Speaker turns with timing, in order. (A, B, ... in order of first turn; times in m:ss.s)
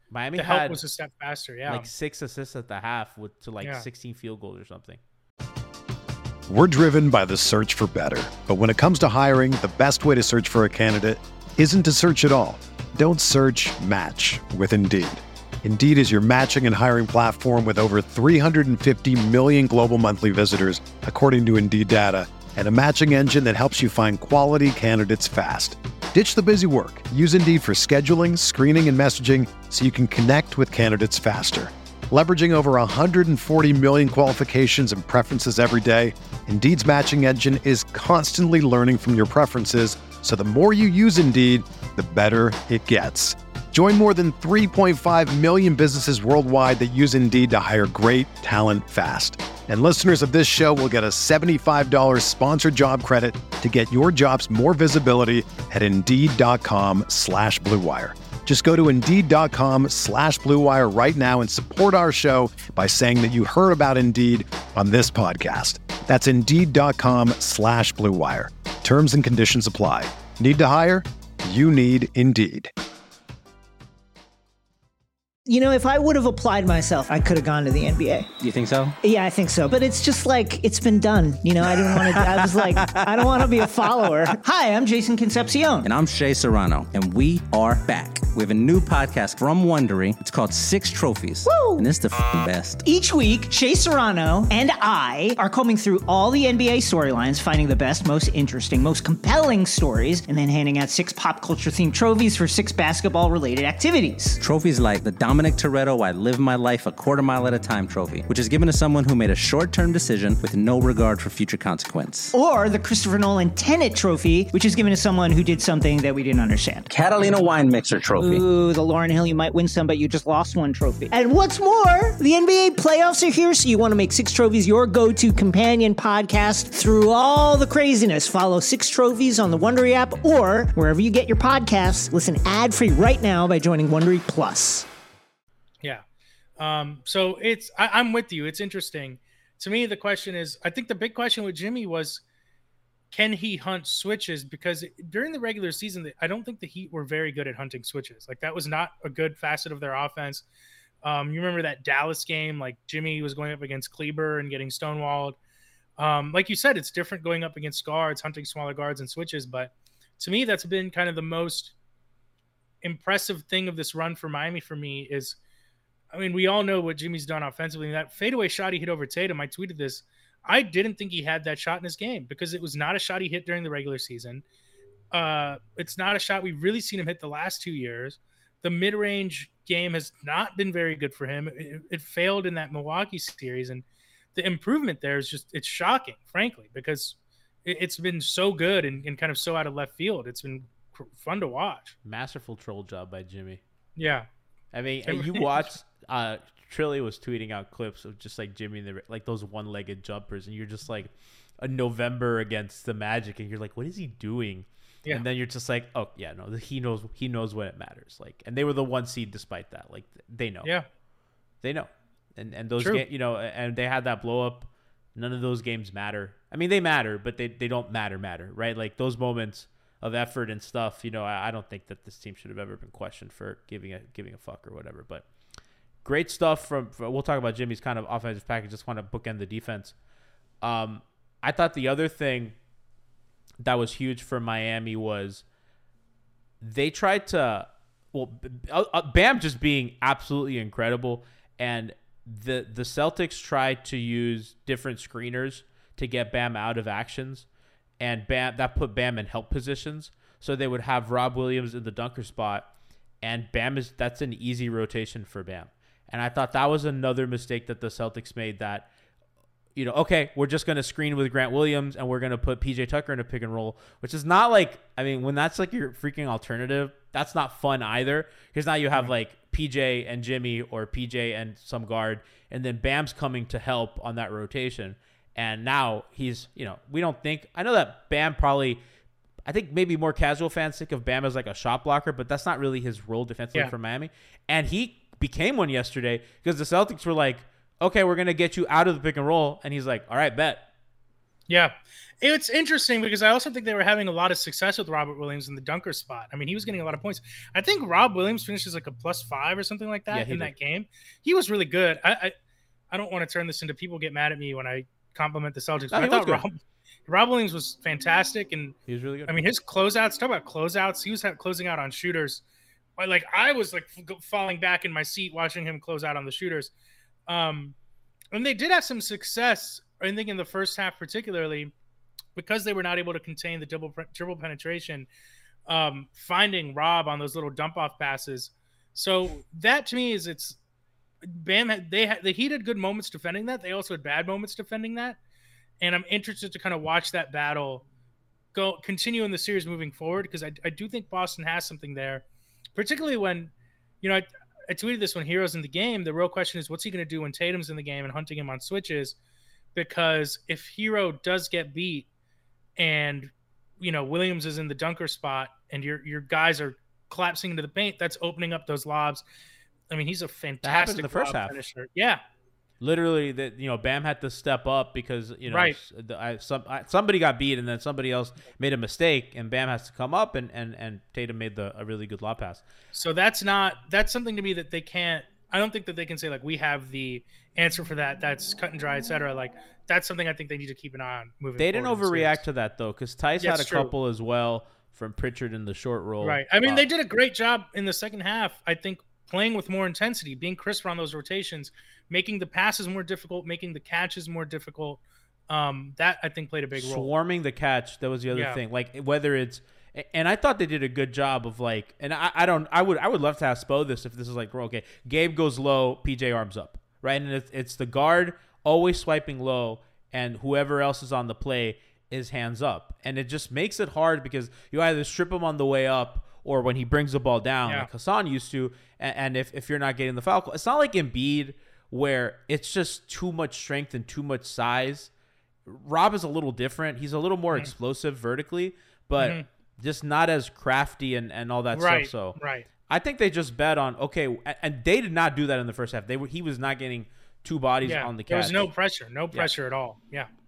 0:00.1-0:00.8 A
0:00.4-0:01.9 B
0:01.7-0:05.0 A
0:06.5-1:12.7 C
1:15.5-1:18.3 D
1:18.4-1:19.0 E
1:19.0-1:25.9 D
1:25.8-1:32.8 E
1:31.4-1:31.9 D
1:32.8-1:44.4 D
1:44.4-1:52.3 E
1:52.3-1:57.6 D
1:56.9-1:58.4 E
1:58.1-2:14.9 D
2:16.6-2:22.2 B
2:23.1-2:30.4 B
2:31.0-2:35.4 B
2:36.0-2:41.7 B
2:42.8-2:45.4 B
2:46.1-2:54.4 B
2:55.1-3:03.8 B
3:04.3-3:11.9 B
3:12.0-3:13.6 A
3:14.0-3:14.3 B
3:14.7-3:30.7 A
3:15.0-3:15.7 B
3:31.6-3:45.2 A
3:46.0-3:49.9 A
3:50.6-3:52.5 A
3:53.6-3:55.4 A
3:56.6-4:07.4 A
4:08.0-4:12.7 A
4:13.2-4:18.9 A
4:19.8-4:38.8 A
4:39.4-4:50.6 A
4:51.5-5:02.3 B
5:00.1-5:00.5 A
5:02.9-5:08.8 B
5:05.9-5:06.4 A
5:08.9-5:09.4 A
5:09.3-5:12.4 B
5:13.0-5:16.7 B
5:17.3-5:17.7 B
5:18.3-5:21.7 B
5:22.4-5:25.1 B
5:25.7-5:30.6 B
5:31.2-5:35.2 B
5:35.8-5:37.8 B
5:38.5-5:42.2 B
5:42.7-5:49.2 B
5:49.7-5:52.1 B
5:52.8-5:59.2 B
5:59.9-6:02.2 B
6:00.6-6:01.6 A
6:02.8-6:12.6 A
6:05.5-6:05.8 B
6:12.9-6:22.4 B
6:21.6-6:26.8 A
6:23.4-6:23.9 B
6:26.2-6:37.1 B
6:36.7-7:05.1 A
6:38.3-6:38.6 B
7:05.6-7:12.4 A
7:09.2-7:09.4 B
7:11.7-7:12.7 B
7:12.9-7:18.7 A
7:17.8-7:20.3 B